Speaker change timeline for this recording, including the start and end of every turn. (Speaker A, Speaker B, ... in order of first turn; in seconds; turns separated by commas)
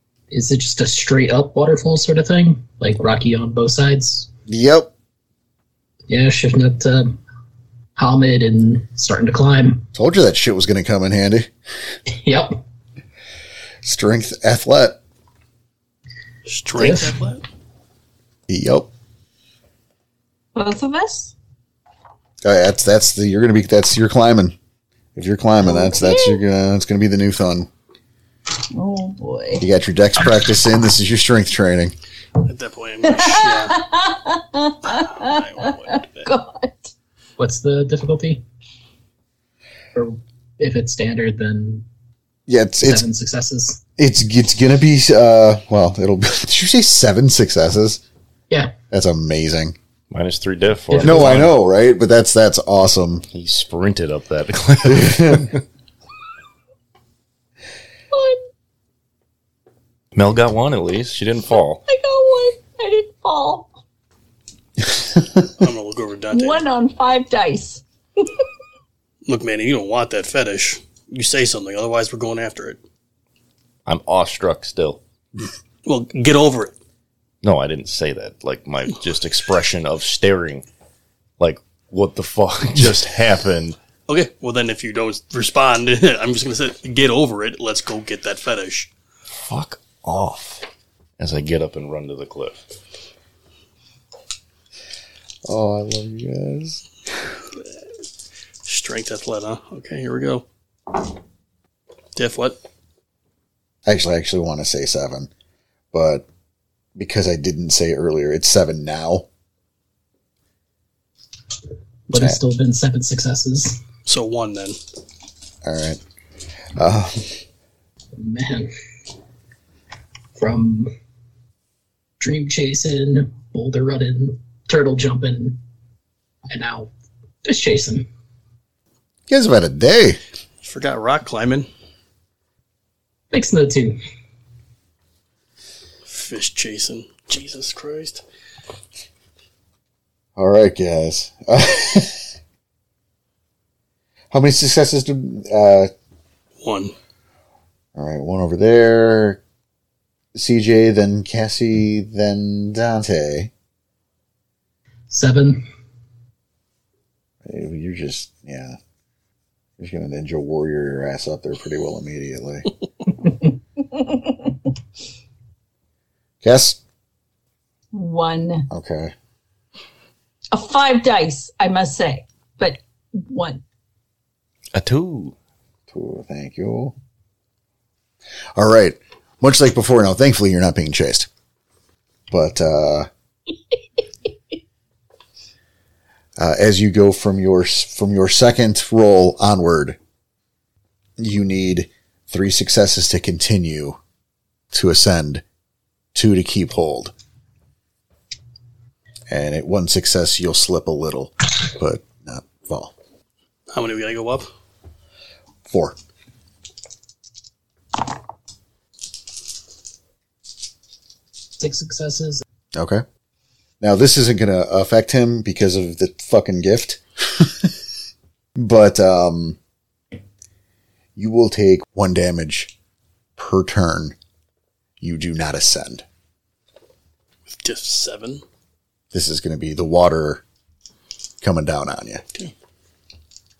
Speaker A: 0.3-4.3, Speaker B: 4.5-4.9, Speaker A: 6.1-7.2, Speaker A: 8.0-9.9, Speaker B: 9.9-11.5, Speaker A: 12.1-12.6, Speaker B: 13.8-15.0, Speaker C: 16.4-17.4, Speaker A: 16.8-17.2, Speaker B: 18.5-18.9, Speaker D: 20.5-21.3, Speaker B: 22.4-24.5, Speaker B: 25.1-27.7, Speaker D: 25.6-26.4, Speaker D: 28.7-29.6, Speaker B: 29.6-31.9, Speaker C: 32.4-33.8, Speaker D: 33.1-36.9, Speaker C: 34.9-36.3, Speaker A: 37.4-38.4, Speaker A: 39.9-41.8, Speaker B: 42.5-43.0, Speaker A: 42.8-43.8, Speaker B: 44.0-48.0, Speaker B: 48.9-49.8, Speaker E: 50.1-51.5, Speaker A: 50.9-51.5, Speaker B: 51.0-53.2, Speaker E: 53.3-55.6, Speaker B: 54.8-55.5, Speaker D: 58.1-58.4, Speaker E: 60.1-61.8, Speaker D: 61.9-63.7, Speaker C: 65.6-66.6, Speaker D: 66.3-68.2, Speaker C: 69.2-72.8, Speaker E: 73.8-75.0, Speaker C: 75.8-76.7, Speaker E: 77.4-80.6, Speaker E: 81.4-83.8, Speaker C: 84.1-88.9, Speaker E: 89.3-90.6, Speaker E: 91.2-92.6, Speaker B: 95.4-96.8, Speaker C: 98.6-100.4, Speaker C: 102.2-102.6, Speaker B: 103.8-105.3, Speaker B: 105.9-106.2, Speaker B: 107.0-109.3, Speaker A: 112.1-113.8, Speaker B: 112.1-112.4, Speaker C: 114.0-114.8, Speaker B: 115.6-116.0, Speaker B: 116.8-117.4, Speaker A: 118.2-118.7, Speaker A: 120.3-120.9, Speaker A: 122.2-125.6, Speaker A: 126.5-126.9, Speaker A: 127.4-128.1, Speaker B: 129.3-130.2, Speaker C: 130.6-131.7, Speaker A: 133.3-134.0, Speaker C: 136.0-138.2, Speaker B: 140.3-142.3, Speaker B: 144.3-145.9, Speaker C: 146.6-146.9, Speaker B: 147.9-149.4, Speaker B: 150.3-153.5, Speaker A: 155.1-155.7, Speaker B: 157.4-158.8, Speaker B: 159.8-162.7, Speaker B: 166.4-166.8, Speaker D: 167.9-168.7, Speaker B: 168.7-169.1, Speaker D: 170.5-173.6, Speaker E: 174.7-175.3, Speaker B: 175.9-176.9, Speaker B: 178.6-181.3, Speaker B: 182.3-183.1, Speaker B: 186.4-190.0, Speaker B: 191.2-194.0, Speaker B: 194.7-195.4, Speaker B: 196.1-197.1, Speaker B: 199.3-202.9, Speaker C: 203.7-204.5, Speaker B: 205.7-205.9, Speaker A: 211.6-212.4, Speaker B: 212.7-213.0, Speaker B: 213.8-217.7, Speaker B: 218.6-219.6, Speaker B: 221.2-222.7, Speaker B: 223.4-224.2, Speaker B: 225.0-226.0, Speaker C: 227.5-228.4, Speaker B: 229.1-230.4, Speaker B: 231.4-232.2